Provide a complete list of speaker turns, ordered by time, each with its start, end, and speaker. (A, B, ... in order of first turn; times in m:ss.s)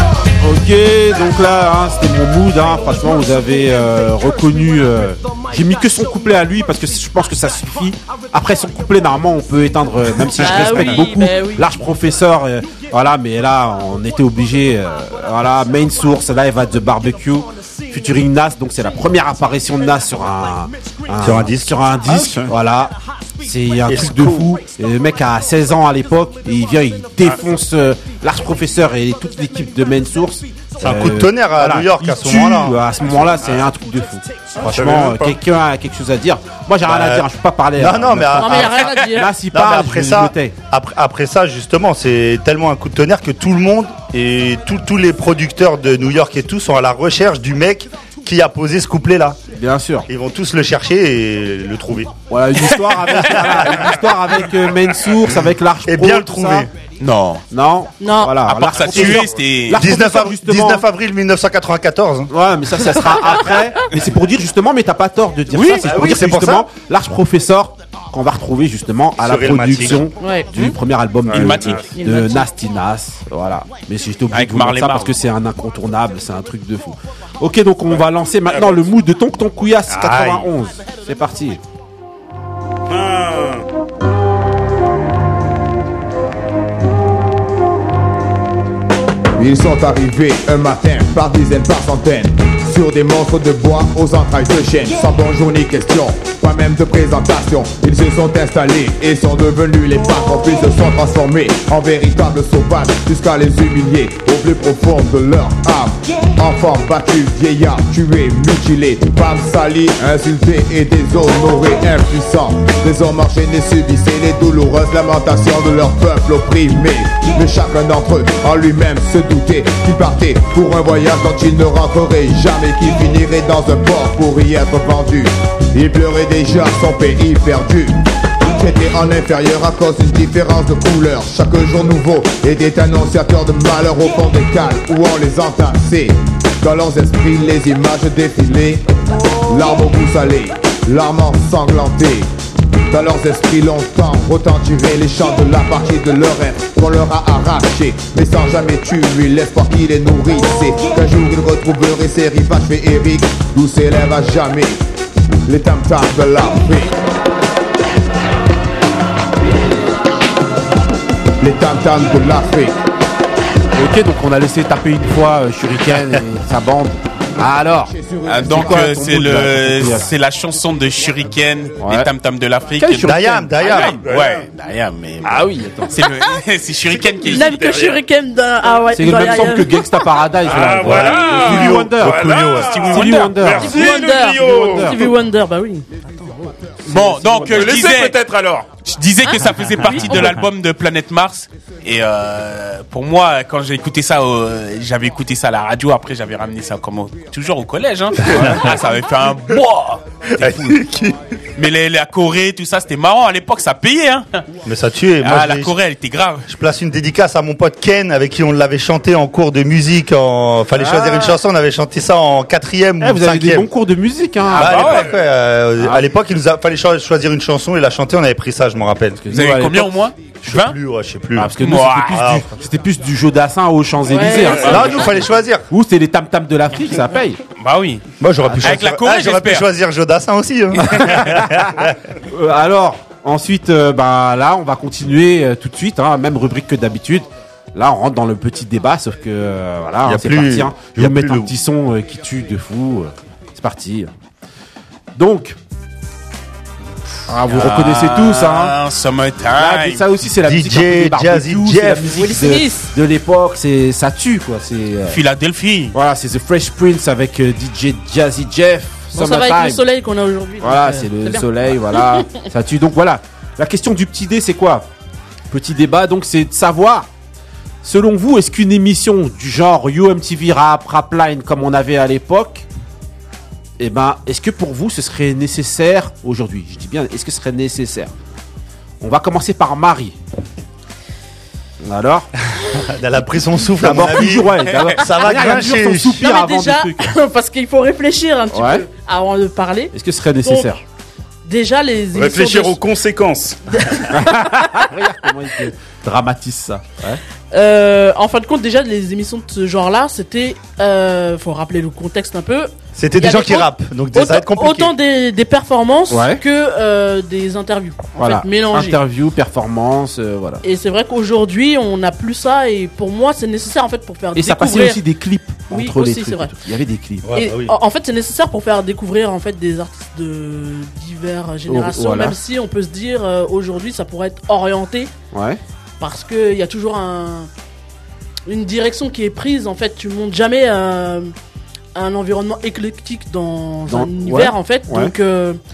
0:00.4-0:40.5 A
0:10.4-0:11.7 B
0:21.2-0:22.0 C
0:22.0-0:22.5 D
0:23.8-0:24.6 C
0:30.8-0:32.9 C
0:33.3-0:33.7 D
0:34.6-0:35.4 D
0:36.8-0:49.4 C
0:38.3-0:39.4 B
0:49.5-0:50.1 A
0:50.1-0:52.1 C
0:52.3-0:56.7 A
0:53.2-0:53.9 C
0:55.8-0:56.7 C
0:57.0-0:57.4 E
0:57.5-1:00.8 A
0:58.0-0:58.4 B
0:58.4-0:59.8 E
0:59.7-1:03.0 C
1:02.3-1:21.6 A
1:05.8-1:06.7 C
1:09.2-1:10.1 C
1:10.2-1:10.8 B
1:11.2-1:11.9 D
1:11.3-1:11.8 E
1:11.9-1:12.5 B
1:14.3-1:15.1 E
1:17.9-1:18.9 D
1:19.9-1:20.5 C
1:22.9-1:23.6 D
1:29.4-2:18.9 F
2:19.4-2:22.3 F
2:22.9-2:34.8 F
2:35.4-2:37.0 F
2:41.4-2:42.7 F
2:43.7-2:50.1 A
2:47.7-2:49.0 F
2:48.2-2:57.8 E
2:51.8-2:52.1 A
2:52.8-2:53.9 A
2:53.0-2:54.0 C
2:54.0-2:54.4 D
2:55.2-2:56.0 A
2:56.9-2:58.0 D
2:57.2-3:00.1 B
2:58.9-3:02.2 A
3:00.4-3:05.1 D
3:00.6-3:02.9 C
3:02.5-3:03.6 E
3:02.9-3:05.0 A
3:03.6-3:06.5 B
3:06.8-3:08.2 E
3:06.9-3:08.7 D
3:07.0-3:07.6 A
3:08.8-3:20.8 E
3:09.2-3:10.3 B
3:18.2-3:18.8 C
3:20.4-3:21.2 C
3:21.6-3:24.4 E
3:24.6-3:25.7 C
3:25.2-3:26.5 E
3:26.5-3:33.7 C
3:30.7-3:31.3 A
3:33.0-3:34.9 A
3:34.5-3:39.2 C
3:34.5-3:35.1 E
3:34.6-3:35.2 D
3:35.8-3:36.1 A
3:39.2-3:40.1 A
3:39.3-3:40.8 E
3:40.4-3:41.5 C
3:41.4-3:47.4 A
3:41.6-3:42.3 E
3:42.1-3:42.5 C
3:44.1-3:45.1 B
3:44.5-3:45.6 C
3:47.6-3:48.0 E
3:48.2-3:51.9 C
3:48.6-3:49.7 E
3:50.8-3:51.2 E
3:52.3-4:04.1 A
4:00.0-4:01.5 C
4:05.2-4:05.6 A
4:07.3-4:08.7 A
4:07.5-4:10.1 E
4:09.5-4:15.2 A
4:10.4-4:12.2 C
4:12.1-4:12.9 B
4:15.1-4:16.0 E
4:15.9-4:19.8 A
4:19.1-4:22.4 B
4:20.6-4:24.9 A
4:25.5-4:27.1 A
4:27.8-4:32.6 A
4:33.8-4:38.1 A
4:39.0-4:40.2 A
4:41.8-4:42.3 A
4:42.6-4:46.2 C
4:43.8-4:47.1 A
4:46.1-4:50.8 B
4:48.5-4:48.8 A
4:49.9-4:50.8 A
4:51.4-4:52.8 B
4:52.1-4:54.1 D
4:53.7-4:54.8 B
4:54.1-4:57.2 A
4:57.5-5:09.0 B
5:03.0-5:04.9 C
5:06.1-5:06.4 A
5:08.2-5:10.6 A
5:10.6-5:15.0 B
5:14.3-5:17.3 A
5:15.7-5:16.5 B
5:17.2-5:17.8 C
5:17.3-5:25.1 B
5:21.7-5:22.4 A
5:25.3-5:25.6 A
5:26.0-5:27.5 B
5:28.5-5:31.3 B
5:31.9-5:35.6 B
5:33.9-5:35.1 A